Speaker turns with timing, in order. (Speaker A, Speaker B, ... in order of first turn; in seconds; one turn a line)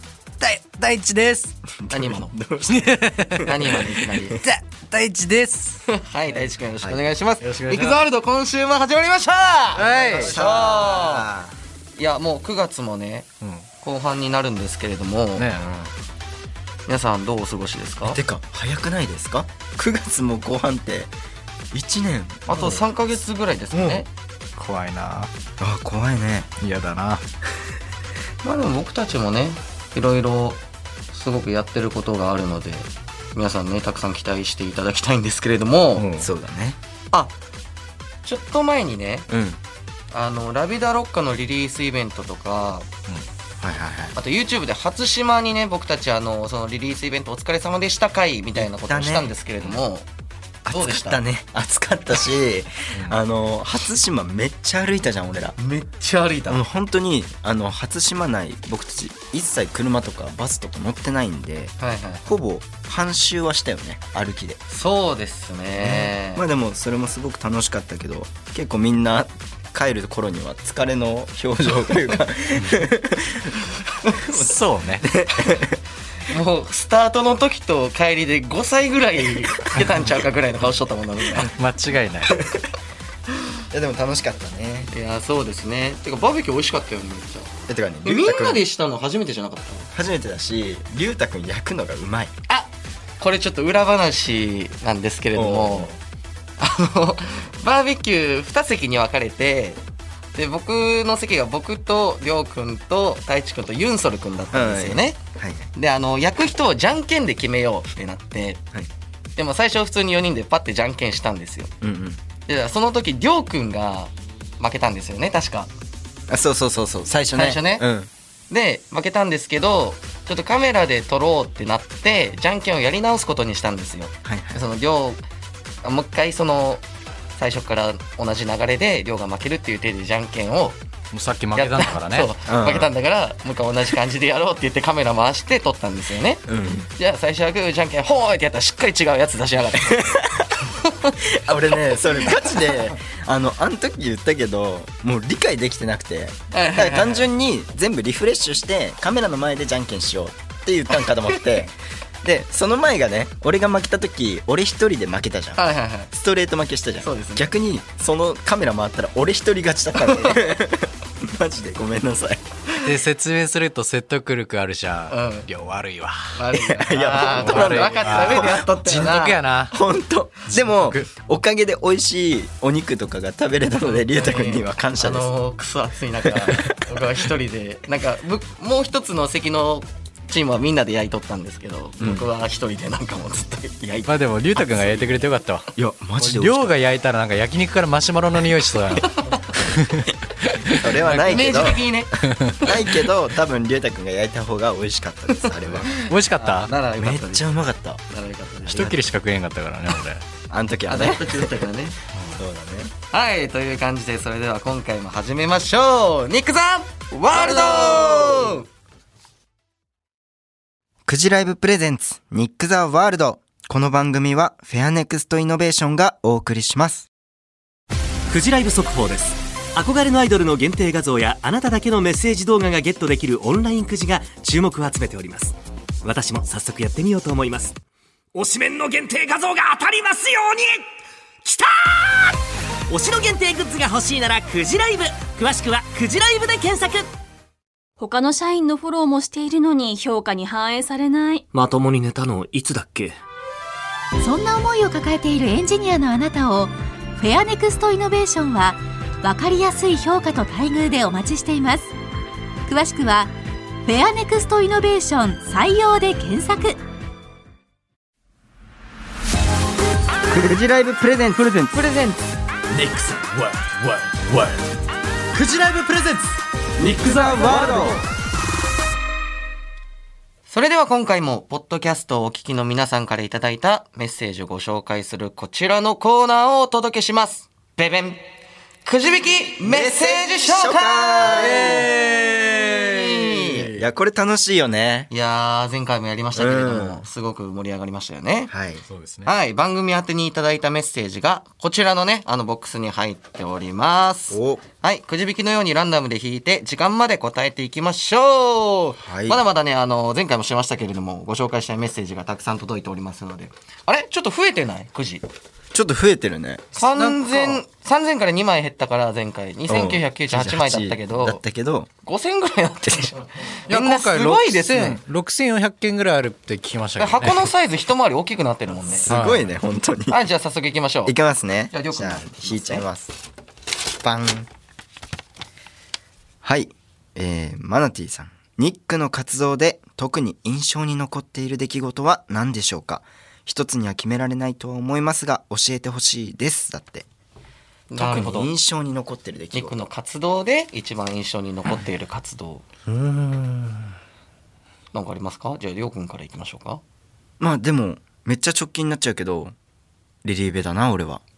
Speaker A: 0.4-1.6
Speaker B: 1.8-3.7
Speaker C: 1.9-2.3
Speaker A: 2.7-3.7
Speaker C: 3.5-4.4
Speaker A: 4.4-5.8
Speaker C: 5.9-11.3
Speaker A: 7.4-8.0
Speaker A: 9.7-10.3
Speaker B: 10.0-11.5
Speaker C: 11.9-13.3
Speaker A: 13.4-13.7
Speaker C: 13.8-15.5
Speaker A: 15.3-15.9
Speaker C: 16.9-18.2
Speaker B: 18.0-21.1
Speaker B: 21.7-22.8
Speaker C: 22.5-24.1
Speaker B: 23.7-24.0
Speaker A: 24.6-25.3
Speaker B: 25.6-26.5
Speaker A: 26.6-27.2
Speaker C: 28.4-36.0
Speaker A: 35.9-36.3
Speaker B: 36.2-36.8
Speaker C: 38.2-39.3
Speaker B: 39.3-39.6
Speaker C: 40.1-42.9
Speaker B: 43.6-44.1
Speaker C: 44.1-50.0
Speaker B: 48.5-49.3
Speaker B: 50.6-55.6
Speaker C: 50.7-51.2
Speaker A: 52.9-53.2
Speaker C: 55.6-56.6
Speaker B: 56.5-64.6
Speaker C: 61.8-62.2
Speaker C: 64.7-66.4
Speaker B: 65.8-73.6
Speaker A: 72.5-72.8
Speaker B: 74.3-74.5
Speaker A: 74.3-75.1
Speaker B: 75.0-75.8
Speaker C: 76.3-81.5
Speaker A: 81.4-82.3
Speaker B: 83.7-84.9
Speaker C: 84.9-87.5
Speaker B: 87.7-88.6
Speaker C: 88.0-89.9
Speaker B: 89.9-92.3
Speaker C: 92.5-95.9
Speaker B: 95.3-96.0
Speaker C: 96.6-99.8
Speaker C: 100.3-105.2
Speaker B: 104.5-105.7
Speaker C: 105.7-108.6
Speaker C: 109.3-111.7
Speaker B: 111.8-112.2
Speaker C: 112.5-115.7
Speaker B: 116.3-118.1
Speaker C: 117.3-117.8
Speaker C: 118.5-125.2
Speaker B: 124.2-124.6
Speaker C: 125.8-126.8
Speaker C: 127.3-130.8
Speaker A: 131.1-132.3
Speaker C: 131.5-136.4
Speaker B: 132.5-132.9
Speaker B: 136.5-136.9
Speaker C: 137.0-141.1
Speaker B: 139.9-140.5
Speaker B: 141.2-162.4
Speaker C: 146.5-147.2
Speaker C: 155.6-156.1
Speaker C: 157.0-157.4
Speaker C: 160.0-160.4
Speaker A: 162.8-166.4
Speaker C: 165.1-165.5
Speaker C: 166.3-169.4
Speaker B: 166.5-169.1
Speaker A: 167.2-169.7
Speaker B: 169.7-175.3
Speaker A: 170.5-171.1
Speaker C: 173.8-184.1
Speaker B: 176.4-176.8
Speaker B: 182.0-182.3
Speaker A: 184.1-192.7
Speaker B: 185.8-186.8
Speaker B: 190.8-191.8
Speaker C: 191.3-192.1
Speaker B: 192.6-195.9
Speaker A: 195.6-196.7
Speaker C: 196.1-199.0
Speaker B: 197.0-198.0
Speaker A: 198.7-200.2
Speaker B: 200.5-201.5
Speaker C: 200.9-201.9
Speaker A: 202.1-202.4
Speaker B: 202.3-202.9
Speaker C: 203.1-208.7
Speaker B: 207.3-208.6
Speaker B: 211.1-217.1
Speaker D: 218.3-227.8
Speaker D: 228.3-230.8
Speaker D: 231.4-232.4
Speaker D: 232.9-237.1
Speaker E: 238.0-241.5
Speaker D: 241.5-243.2
Speaker F: 244.2-251.9
Speaker F: 252.7-253.3
Speaker F: 253.8-256.8
Speaker B: 260.3-261.8
Speaker C: 261.7-262.2
Speaker D: 265.6-266.2
Speaker B: 266.8-268.0
Speaker C: 270.5-278.2
Speaker C: 278.8-283.7
Speaker B: 279.6-281.9
Speaker A: 281.2-283.7
Speaker B: 283.8-285.1
Speaker C: 285.1-288.5
Speaker B: 286.3-287.0
Speaker B: 288.5-288.8
Speaker A: 288.9-289.3
Speaker C: 289.2-305.2
Speaker B: 294.3-294.6
Speaker B: 299.0-299.4
Speaker B: 305.7-306.7
Speaker C: 306.7-311.4
Speaker A: 306.9-307.6
Speaker B: 309.7-311.9
Speaker C: 312.0-315.0
Speaker A: 313.7-317.5
Speaker C: 317.0-319.1
Speaker B: 318.9-320.2
Speaker A: 319.1-319.5
Speaker C: 320.1-321.1
Speaker B: 321.1-323.1
Speaker C: 321.7-322.9
Speaker B: 324.0-324.5
Speaker B: 326.4-337.1
Speaker C: 337.9-338.5
Speaker B: 337.9-339.8
Speaker C: 339.5-342.6
Speaker B: 342.9-343.9
Speaker C: 344.9-346.8
Speaker B: 347.4-349.5
Speaker B: 350.2-351.2